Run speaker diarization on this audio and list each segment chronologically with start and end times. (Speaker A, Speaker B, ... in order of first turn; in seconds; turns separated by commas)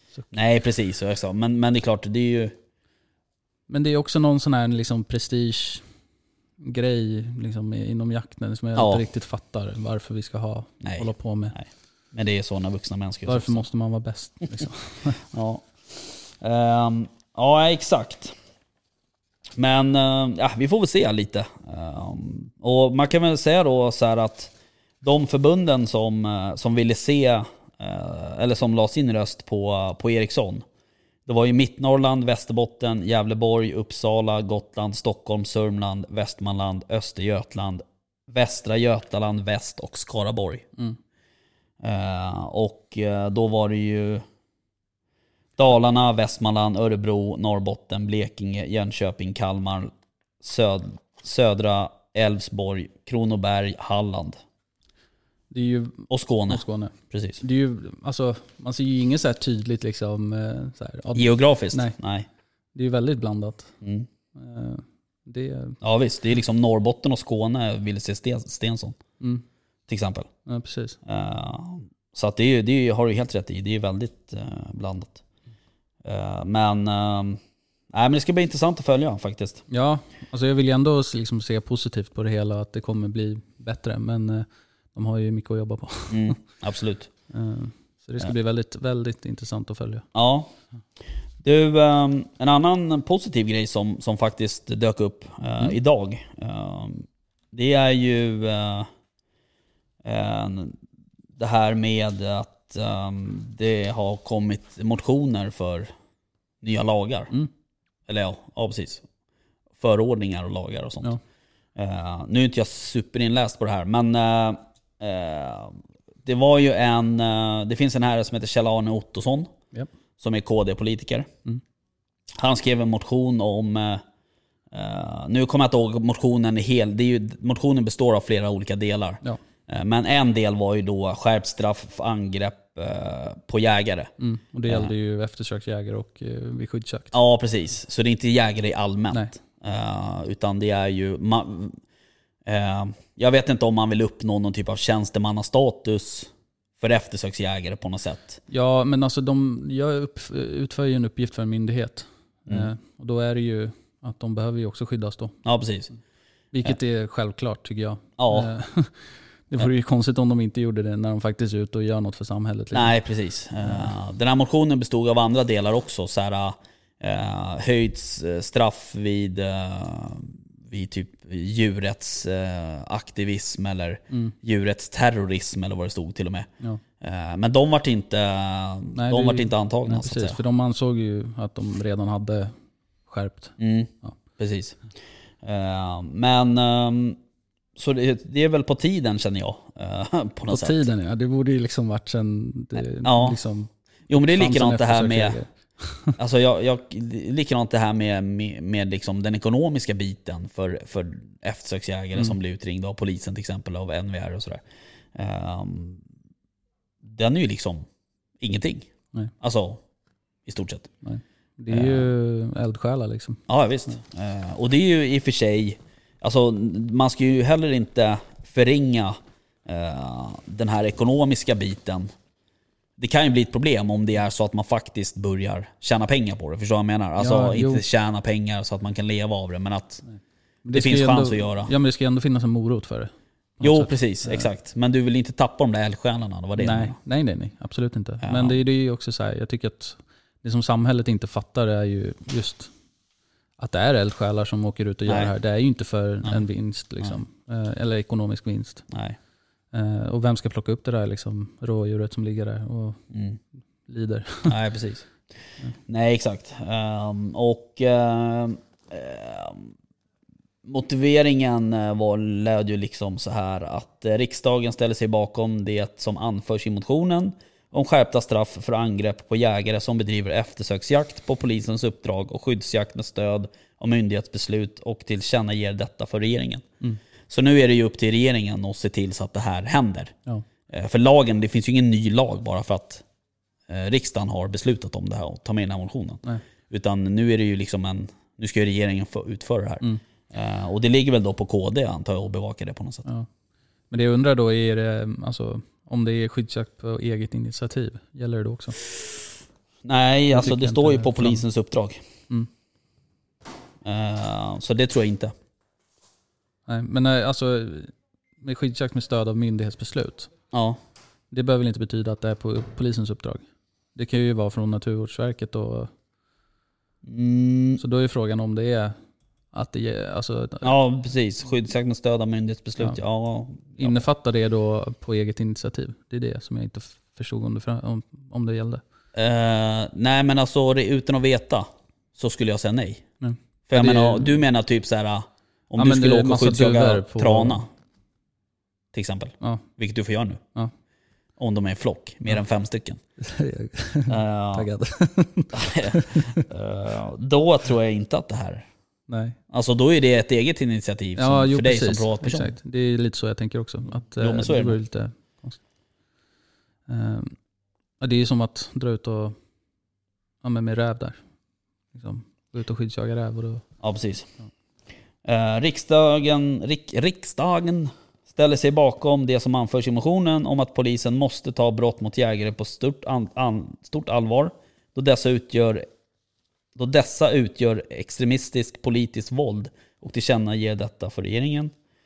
Speaker A: 0.3-2.5, Speaker B: 3.7-5.9, Speaker B: 6.6-11.6, Speaker A: 8.8-9.0, Speaker A: 10.8-13.6, Speaker B: 13.2-15.2, Speaker A: 15.2-18.4, Speaker A: 19.6-30.6, Speaker A: 31.2-40.7, Speaker A: 41.8-44.2, Speaker A: 45.6-54.4, Speaker B: 55.5-62.0, Speaker A: 56.1-57.4, Speaker A: 61.1-62.3, Speaker B: 62.7-63.7, Speaker A: 63.8-64.1, Speaker B: 64.3-65.8, Speaker A: 65.8-69.0, Speaker A: 69.9-70.3, Speaker B: 70.5-71.0, Speaker A: 71.0-75.2, Speaker A: 76.0-79.7, Speaker B: 79.7-86.4, Speaker A: 86.1-87.1, Speaker B: 87.3-90.1, Speaker A: 90.1-90.5, Speaker A: 91.4-98.9, Speaker A: 100.0-100.8, Speaker A: 101.4-105.9, Speaker A: 106.6-107.3, Speaker A: 108.1-109.0, Speaker A: 109.8-111.1, Speaker A: 111.7-119.5, Speaker A: 120.2-121.3, Speaker A: 122.4-124.0, Speaker A: 124.7-134.1, Speaker B: 134.2-137.2, Speaker A: 134.7-134.9, Speaker A: 137.1-141.8, Speaker A: 142.4-148.4, Speaker B: 148.5-155.4, Speaker A: 155.4-155.9, Speaker B: 156.5-162.9, Speaker A: 158.2-158.5, Speaker A: 162.7-180.4, Speaker B: 178.9-184.2, Speaker A: 183.6-184.8, Speaker A: 185.4-187.2, Speaker A: 187.8-190.8, Speaker B: 190.5-196.1, Speaker A: 193.0-193.4, Speaker A: 194.1-195.4, Speaker A: 196.2-206.0, Speaker A: 207.0-207.9, Speaker A: 208.4-208.9, Speaker A: 209.4-209.8, Speaker A: 210.4-210.9, Speaker B: 211.0-213.4, Speaker A: 211.7-212.1, Speaker A: 213.5-222.1, Speaker A: 223.0-230.0, Speaker B: 227.2-227.8, Speaker B: 230.1-234.5, Speaker A: 230.7-231.7, Speaker A: 233.6-237.0, Speaker B: 236.6-242.7, Speaker A: 238.2-238.6, Speaker B: 243.6-248.9, Speaker A: 245.1-245.3, Speaker A: 248.9-249.2, Speaker B: 249.7-253.1, Speaker A: 253.1-253.4, Speaker B: 253.8-254.5, Speaker A: 254.5-255.2, Speaker A: 255.9-259.7, Speaker A: 260.6-276.7, Speaker A: 277.3-280.1, Speaker A: 280.7-283.0, Speaker A: 283.7-293.0, Speaker B: 293.0-293.3, Speaker B: 293.8-298.8, Speaker A: 299.8-302.0, Speaker B: 300.3-301.4, Speaker A: 303.8-305.3, Speaker B: 306.7-310.3, Speaker A: 310.5-310.8, Speaker B: 311.3-315.9, Speaker A: 317.0-317.8, Speaker B: 317.8-319.0, Speaker B: 319.5-320.7, Speaker A: 320.6-324.0, Speaker B: 323.7-328.8, Speaker A: 329.1-333.1, Speaker B: 333.2-334.4, Speaker A: 333.7-337.7, Speaker B: 335.8-337.6, Speaker A: 338.9-340.4, Speaker B: 339.4-339.6, Speaker A: 341.4-343.0, Speaker B: 343.2-346.4, Speaker A: 344.1-344.7, Speaker A: 345.5-348.7, Speaker B: 349.1-349.4, Speaker A: 349.5-352.5, Speaker B: 351.2-355.6, Speaker A: 354.2-354.8, Speaker B: 356.9-357.4, Speaker B: 358.0-359.4, Speaker B: 360.4-361.2, Speaker B: 361.9-363.7, Speaker A: 363.8-364.3, Speaker A: 365.2-375.8, Speaker A: 376.8-381.7